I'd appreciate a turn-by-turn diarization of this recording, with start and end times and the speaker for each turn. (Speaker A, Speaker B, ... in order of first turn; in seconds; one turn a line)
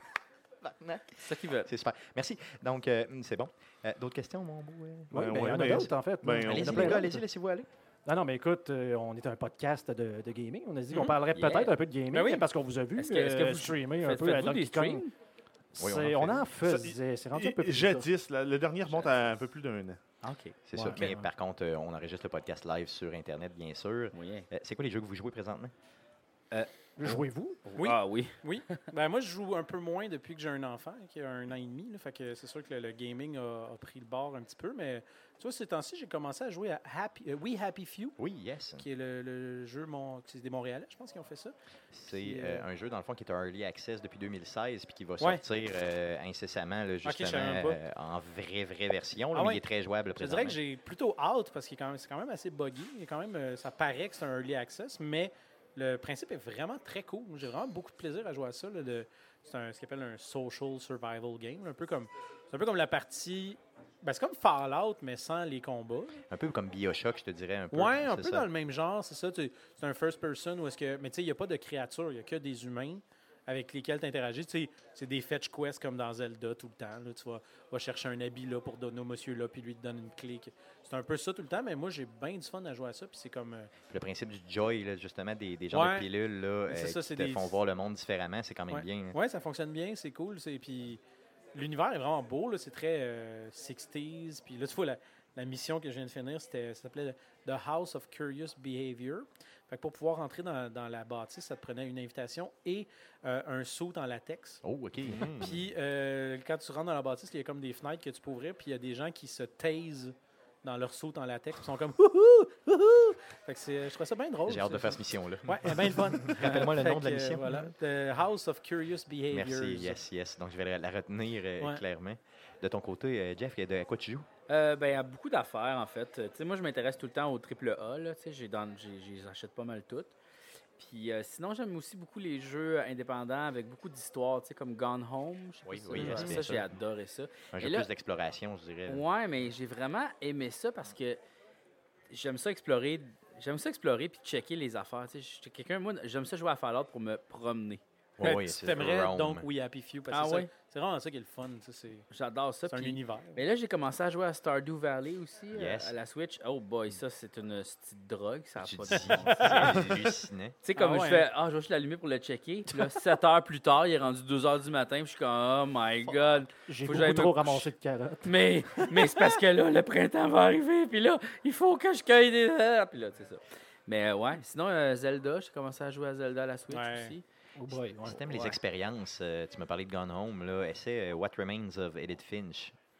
Speaker A: 0.6-5.9
Speaker B: 1.2-1.7
Speaker C: 5.1-7.2
Speaker D: 5.1-7.0
Speaker A: 6.4-7.7
Speaker C: 8.1-15.0
Speaker B: 11.3-11.7
Speaker E: 12.1-12.4
Speaker B: 13.0-15.1
Speaker C: 15.7-18.1
Speaker A: 15.8-16.4
Speaker D: 16.6-20.0
Speaker B: 18.9-19.1
Speaker B: 20.2-20.6
Speaker A: 20.6-25.7
Speaker C: 20.7-21.2
Speaker B: 24.1-24.5
Speaker C: 27.0-27.6
Speaker B: 27.7-28.4
Speaker E: 27.8-38.2
Speaker A: 38.2-38.8
Speaker E: 38.8-41.5
Speaker A: 41.9-50.6
Speaker E: 42.1-42.6
Speaker E: 47.0-47.8
Speaker E: 49.3-49.6
Speaker E: 50.2-66.2
Speaker A: 66.3-68.5
Speaker E: 67.7-83.7
Speaker A: 83.9-89.2
Speaker E: 85.7-86.1
Speaker E: 86.7-87.5
Speaker E: 88.7-91.0
Speaker E: 91.5-104.6
Speaker A: 104.6-105.6
Speaker D: 105.1-105.5
Speaker E: 105.1-120.0
Speaker A: 114.5-117.7
Speaker A: 119.3-124.3
Speaker B: 124.5-130.1
Speaker B: 130.8-137.9
Speaker A: 135.7-136.8
Speaker E: 135.9-136.4
Speaker A: 137.5-139.1
Speaker B: 138.9-141.2
Speaker B: 142.1-147.8
Speaker A: 148.2-149.5
Speaker E: 148.2-152.1
Speaker B: 150.1-150.5
Speaker B: 152.1-159.8
Speaker E: 152.7-153.4
Speaker A: 155.5-155.9
Speaker A: 158.6-160.6
Speaker B: 160.6-167.7
Speaker E: 160.8-161.3
Speaker C: 166.7-169.0
Speaker B: 168.2-177.2
Speaker E: 176.7-177.1
Speaker C: 177.6-178.6
Speaker A: 178.0-182.8